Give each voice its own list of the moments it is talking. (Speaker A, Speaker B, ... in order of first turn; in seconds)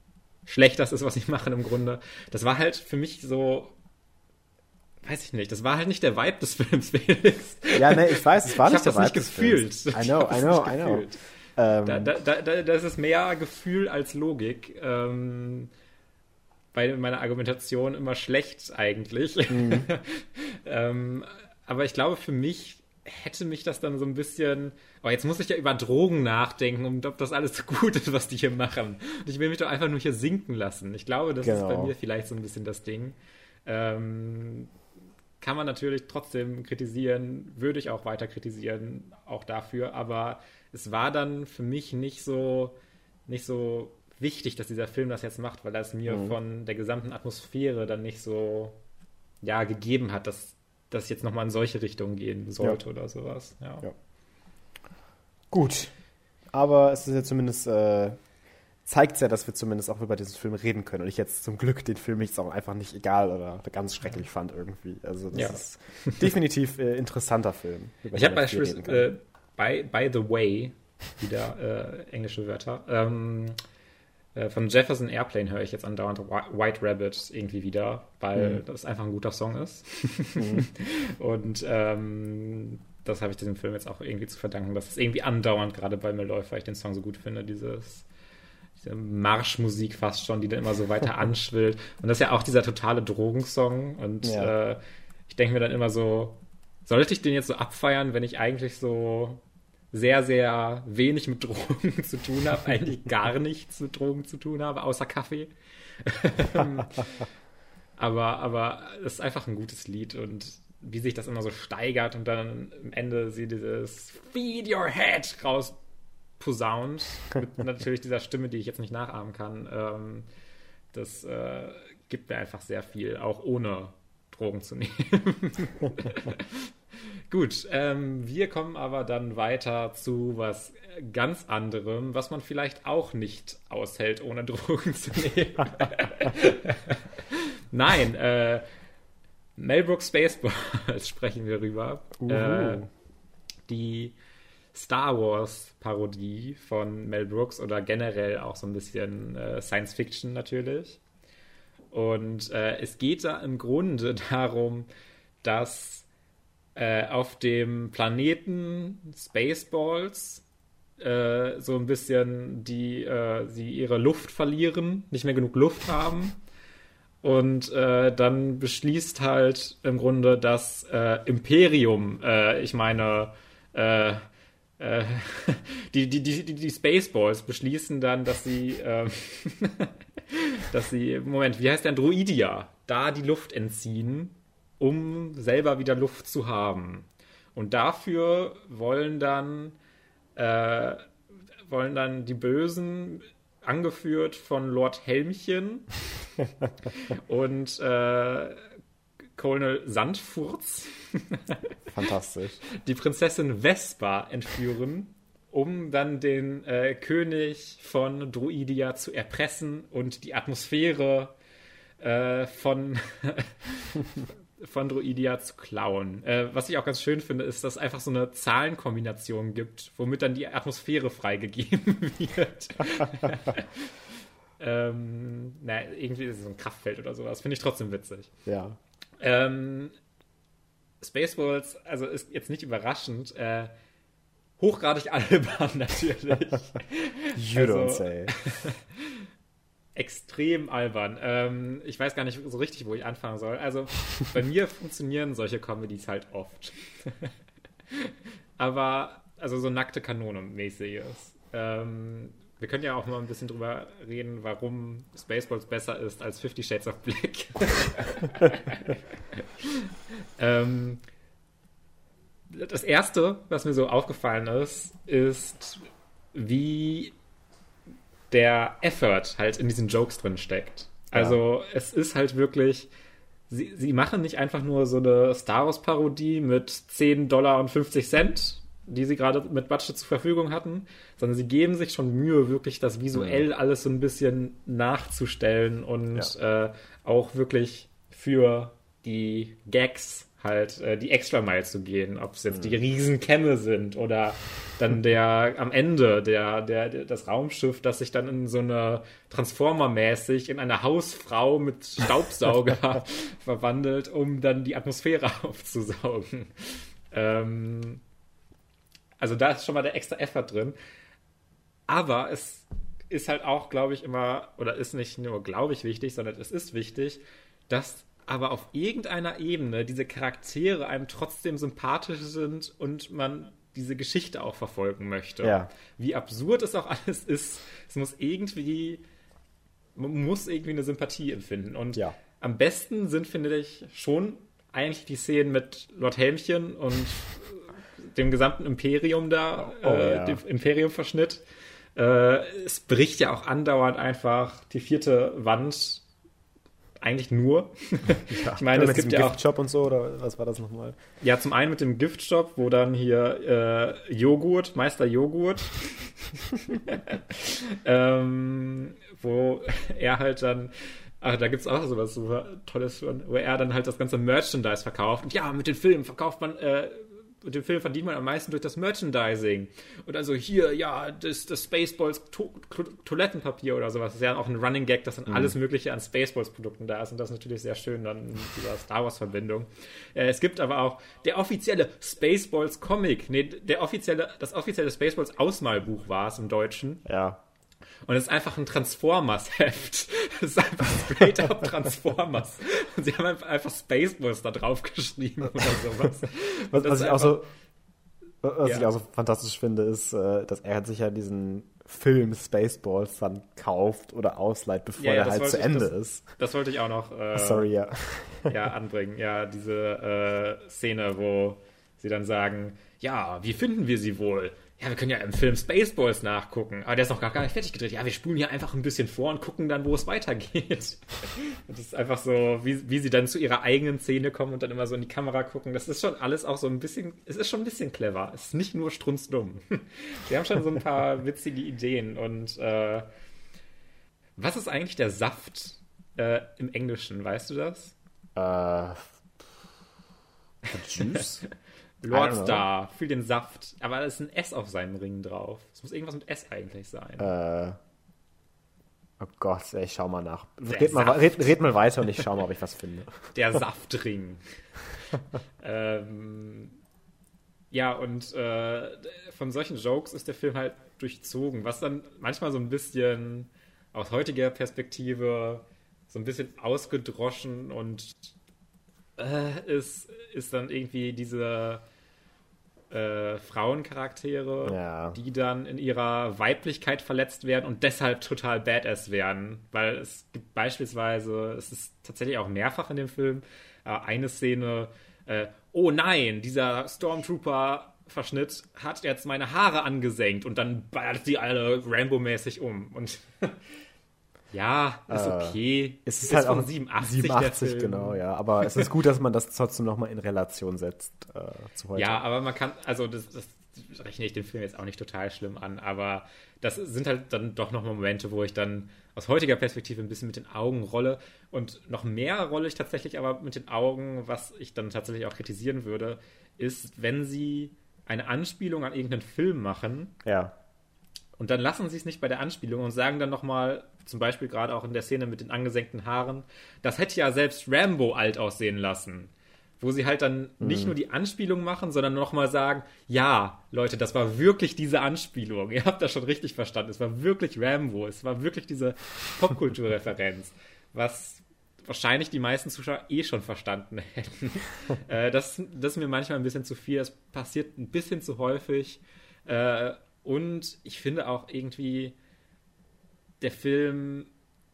Speaker A: 0.5-3.7, 5.0-11.2, 11.8-15.7, 16.7-34.7, 35.4-42.8, 43.3-48.8, 49.4-53.9, 65.3-66.2, 68.1-73.6, 74.3-88.0, 88.8-107.2, 108.0-115.8, 116.4-120.3, 120.9-126.7, 127.3-138.6, 139.6-142.8, 143.7-144.2, 144.7-151.0, 151.9-154.9, 155.4-156.1, 156.8-160.4, 161.0-166.3, 167.2-174.2, 174.8-189.8, 190.3-191.1, 191.7-195.9, 196.9-198.6, 199.3-201.6, 202.7-211.3, 212.0-223.9, 224.6-228.3, 229.2-229.9, 231.0-233.7, 234.6-239.2, 239.9-247.3, 247.9-261.0, 262.5-267.1, 268.3-272.9, 273.5-308.0, 309.2-310.8, 311.9-329.0, 329.9-341.4, 341.9-346.0, 347.0-349.4, 351.2-387.0, 388.0-397.4, 398.6-398.9, 405.0-407.7, 408.5-433.1, 434.4-437.9, 442.0-447.3, 450.7-451.4, 453.3-454.4, 455.6-456.7, 457.7-468.3, 469.2-471.8, 472.9-493.6, 494.5-498.2, 501.9-520.1, 521.4-552.1, 553.4-554.3
Speaker B: 7.7-11.1, 11.6-12.1, 19.5-19.9, 31.4-31.9, 46.1-46.4, 55.5-55.9, 56.5-58.2, 58.9-69.1, 78.3-78.6, 80.4-80.7, 94.2-94.5, 142.2-142.9, 201.9-202.6, 228.4-228.8, 237.3-238.3, 271.1-271.4, 283.1-283.4, 292.5-292.8, 325.4-325.7, 339.6-340.4, 348.3-351.0, 375.3-375.5, 387.0-387.4, 396.7-397.5, 398.4-406.3, 407.3-408.5, 438.4-439.1, 440.7-441.4, 442.1-442.6, 447.2-447.8, 449.2-453.3, 474.6-475.2, 495.1-502.2, 520.2-520.5, 530.6-531.0